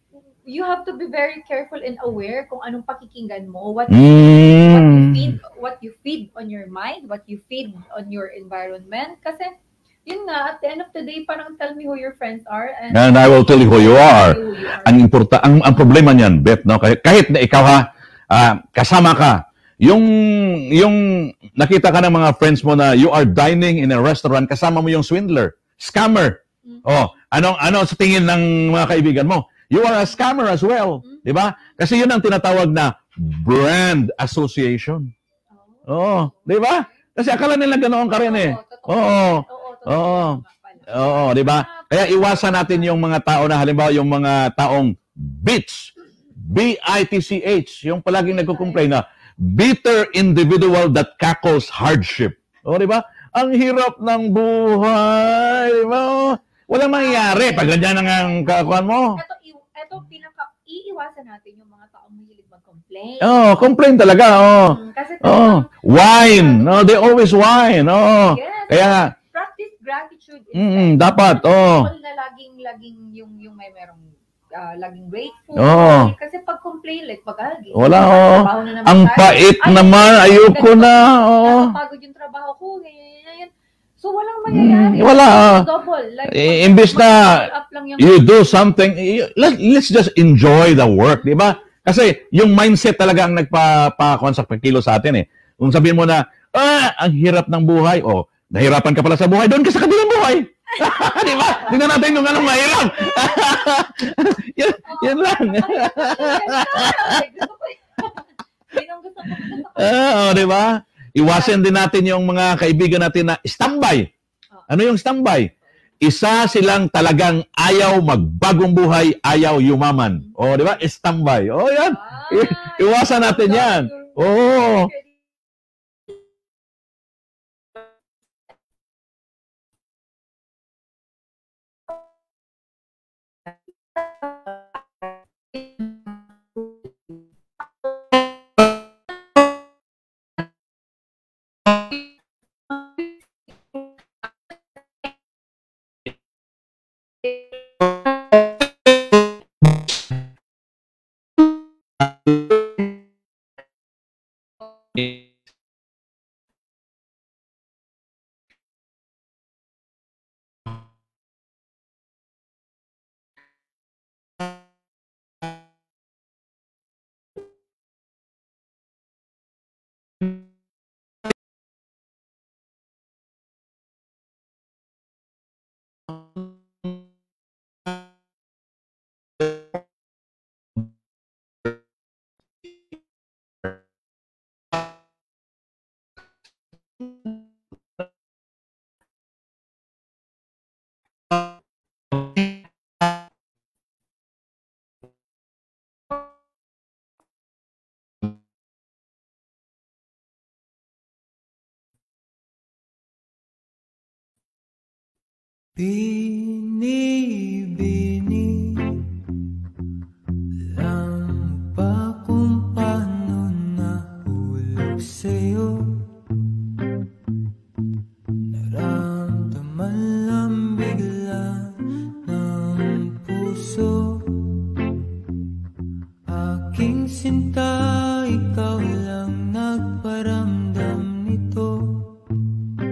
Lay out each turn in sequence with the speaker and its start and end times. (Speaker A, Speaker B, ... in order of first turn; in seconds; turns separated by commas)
Speaker A: 0.4-9.5, Speaker B: 3.9-5.4, Speaker A: 10.1-15.1, Speaker B: 12.9-35.1, Speaker A: 26.6-26.9, Speaker A: 31.0-31.7, Speaker A: 35.5-37.0, Speaker B: 35.9-45.9, Speaker A: 38.1-43.0, Speaker B: 46.5-59.2, Speaker A: 48.3-48.8, Speaker A: 56.9-63.4, Speaker B: 63.2-69.1, Speaker A: 64.7-67.3, Speaker A: 68.2-88.5, Speaker B: 70.5-71.9, Speaker B: 75.5-76.1, Speaker B: 77.7-81.7, Speaker B: 84.5-85.7, Speaker B: 86.3-87.5, Speaker B: 88.0-107.1, Speaker A: 91.2-91.7, Speaker A: 100.7-103.7, Speaker A: 104.8-110.6, Speaker B: 109.8-114.1, Speaker A: 111.2-111.6, Speaker B: 114.7-115.5, Speaker B: 116.0-124.9, Speaker A: 120.2-120.8, Speaker A: 121.8-125.1, Speaker A: 133.9-136.6, Speaker A: 142.7-143.1, Speaker C: 205.8-209.3, Speaker C: 210.6-216.7, Speaker C: 218.5-225.0, Speaker C: 226.2-232.3